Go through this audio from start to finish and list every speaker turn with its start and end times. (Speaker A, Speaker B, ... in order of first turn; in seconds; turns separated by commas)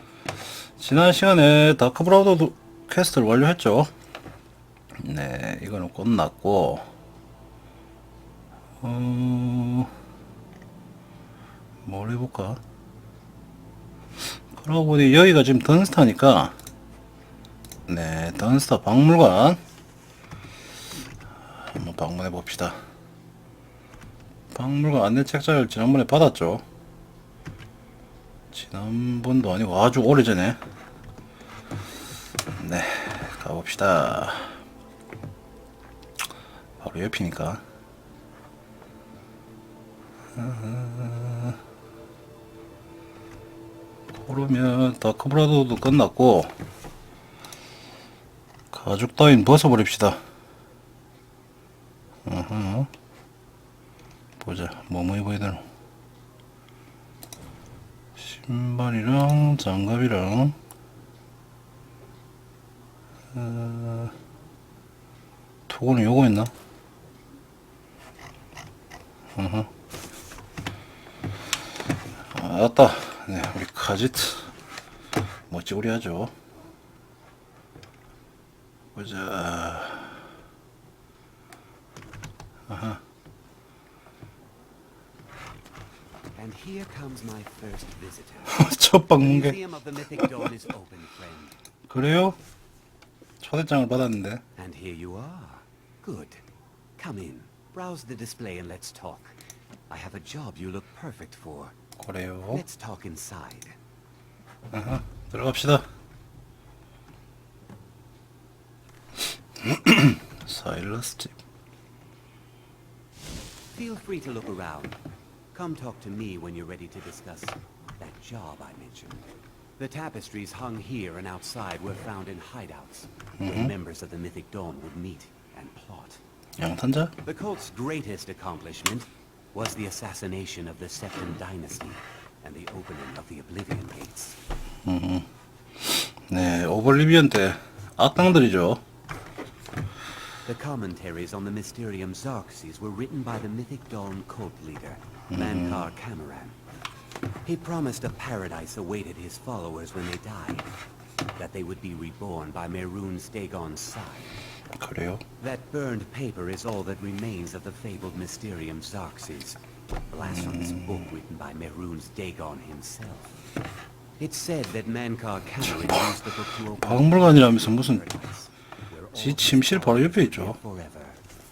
Speaker A: 0.8-3.9, Speaker A: 5.0-6.9, Speaker A: 8.8-9.9, Speaker A: 11.8-12.6, Speaker A: 14.5-16.6, Speaker A: 17.9-19.6, Speaker A: 21.5-22.8, Speaker A: 24.5-26.6, Speaker A: 28.5-30.6, Speaker A: 32.5-34.6, Speaker A: 36.8-37.6, Speaker A: 40.3-41.6, Speaker A: 44.1-46.5, Speaker A: 48.7-50.2, Speaker A: 52.2-52.9, Speaker A: 54.4-55.6, Speaker A: 58.2-60.5, Speaker A: 63.3-64.1, Speaker A: 65.7-66.5, Speaker A: 69.3-69.7, Speaker A: 72.3-74.5, Speaker A: 75.5-76.3, Speaker A: 78.9-80.2, Speaker A: 82.7-83.0, Speaker B: 86.3-91.5, Speaker A: 88.5-89.5, Speaker A: 91.9-92.4, Speaker A: 93.4-94.4, Speaker B: 94.6-96.4, Speaker B: 97.0-99.4, Speaker B: 99.9-101.7, Speaker A: 102.0-102.6, Speaker B: 102.5-103.8, Speaker A: 104.7-105.8, Speaker A: 109.6-111.4, Speaker B: 113.7-115.0, Speaker B: 115.5-119.3, Speaker B: 119.8-126.2, Speaker A: 123.4-123.7, Speaker A: 126.6-127.2, Speaker B: 127.2-134.4, Speaker A: 134.8-135.3, Speaker A: 135.8-138.8, Speaker B: 140.4-146.6, Speaker A: 145.3-145.9, Speaker B: 147.4-150.7, Speaker B: 151.3-154.4, Speaker A: 154.8-155.2, Speaker B: 155.4-163.3, Speaker A: 160.2-161.1, Speaker B: 164.2-171.2, Speaker A: 165.7-166.0, Speaker A: 166.8-168.0, Speaker A: 169.1-170.6